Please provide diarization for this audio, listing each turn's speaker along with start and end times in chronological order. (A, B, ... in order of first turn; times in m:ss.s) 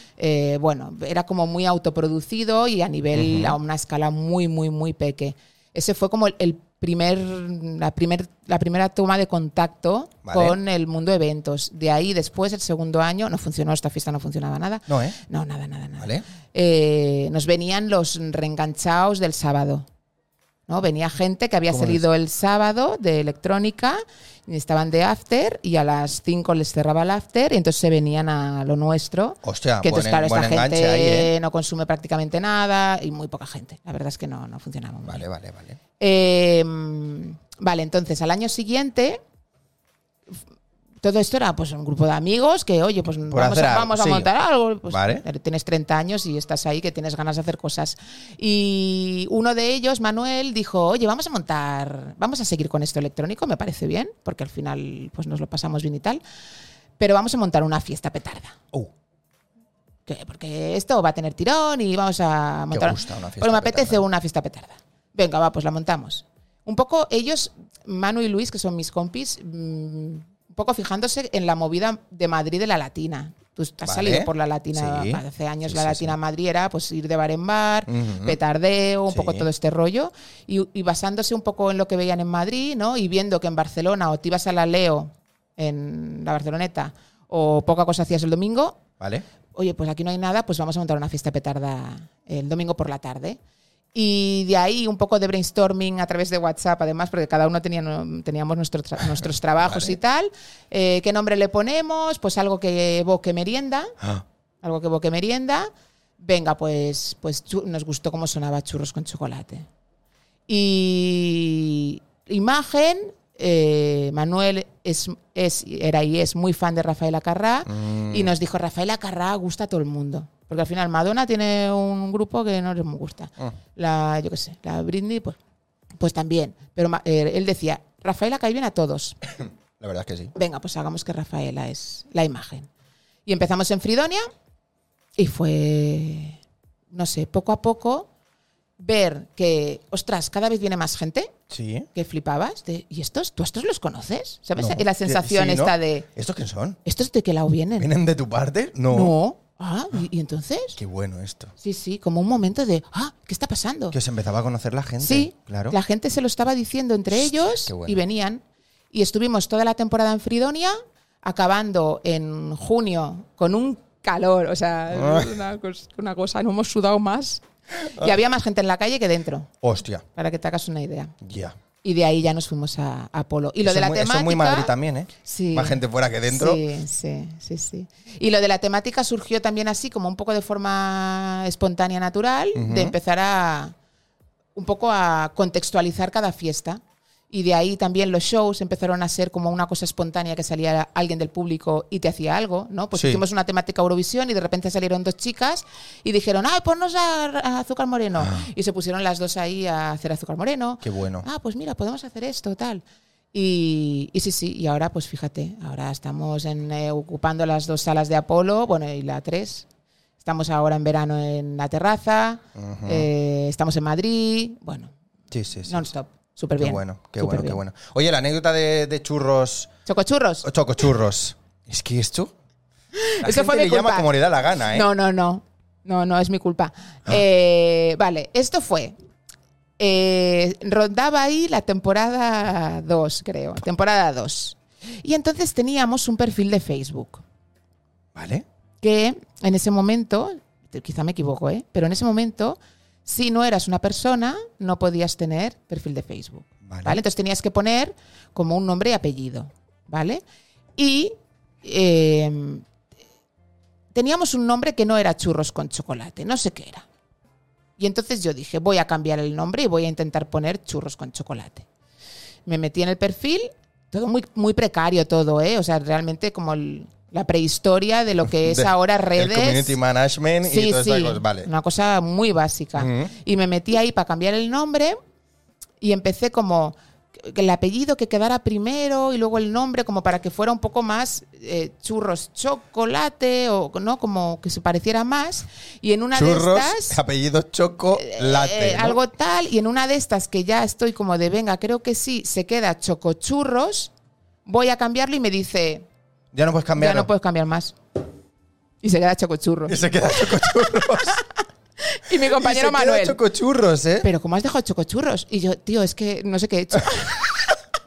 0:00.2-0:19.8 A
0:03.1-0:03.6 B
0:10.2-0:10.6 B
0:14.9-0:15.2 B
0:16.0-0:16.2 B
0:20.7-0:35.2 A
0:21.7-0:22.0 B
0:29.4-0:31.3 B
0:35.0-0:35.8 B
0:36.0-0:39.2 A
0:41.0-0:56.2 A
0:43.3-0:44.3 B
0:44.9-0:45.2 B
0:57.0-0:58.6 A
1:00.0-1:28.8 A
1:02.7-1:04.0 B
1:13.8-1:16.1 B
1:17.9-1:18.4 B
1:19.1-1:19.5 B
1:29.0-1:29.2 B
1:29.5-1:33.4 A
1:33.9-1:43.9 A
1:39.6-1:40.0 B
1:44.6-1:49.7 A
1:50.5-2:05.4 A
1:57.7-1:58.3 B
2:06.0-2:09.2 A
2:09.4-2:10.3 B
2:10.3-2:12.7 A
2:13.2-2:14.3 A
2:15.2-2:16.4 A
2:16.9-2:18.1 A
2:18.8-2:21.3 A
2:21.5-2:21.9 B
2:21.9-2:26.1 A
2:24.6-2:26.8 B
2:26.8-2:27.9 A
2:27.8-2:29.1 B
2:28.9-2:30.8 A
2:30.8-2:31.5 B
2:31.6-2:34.0 A
2:33.9-2:35.8 B
2:35.0-2:49.5 A
2:37.2-2:38.0 B
2:44.9-2:45.3 B
2:47.8-2:48.1 B
2:49.6-2:50.0 B
2:50.1-2:51.2 A
2:51.2-2:51.6 B
2:51.8-3:03.7 A
2:53.6-2:56.6 B
3:02.5-3:02.9 B
3:04.5-3:29.6 A
3:12.9-3:13.2 B
3:18.2-3:18.5 B
3:20.8-3:21.2 B
3:30.2-3:34.9 A
3:32.5-3:33.1 B
3:35.3-3:35.8 B
3:35.7-3:37.6 A
3:36.6-3:39.7 B
3:39.8-3:40.4 A
3:40.4-3:42.3 B
3:42.9-3:44.1 A
3:43.2-3:44.8 B
3:44.7-3:49.0 A
3:49.8-3:57.2 A
3:58.1-3:58.4 B
3:58.8-4:10.2 A
4:06.6-4:07.0 B
4:10.8-4:12.6 A
4:13.9-4:16.8 A
4:17.8-4:21.6 A
4:22.4-4:29.8 A
4:28.3-4:31.5 B
4:30.4-4:35.0 A
4:32.8-4:33.1 B
4:35.8-4:47.0 A
4:46.1-4:49.0 B
4:47.9-4:53.9 A
4:54.4-4:55.9 A
4:56.3-4:57.1 B
4:56.8-4:57.8 A
4:58.8-5:01.3 A
4:59.7-5:01.2 B
5:01.8-5:03.2 A
5:02.2-5:04.1 B
5:04.0-5:07.6 A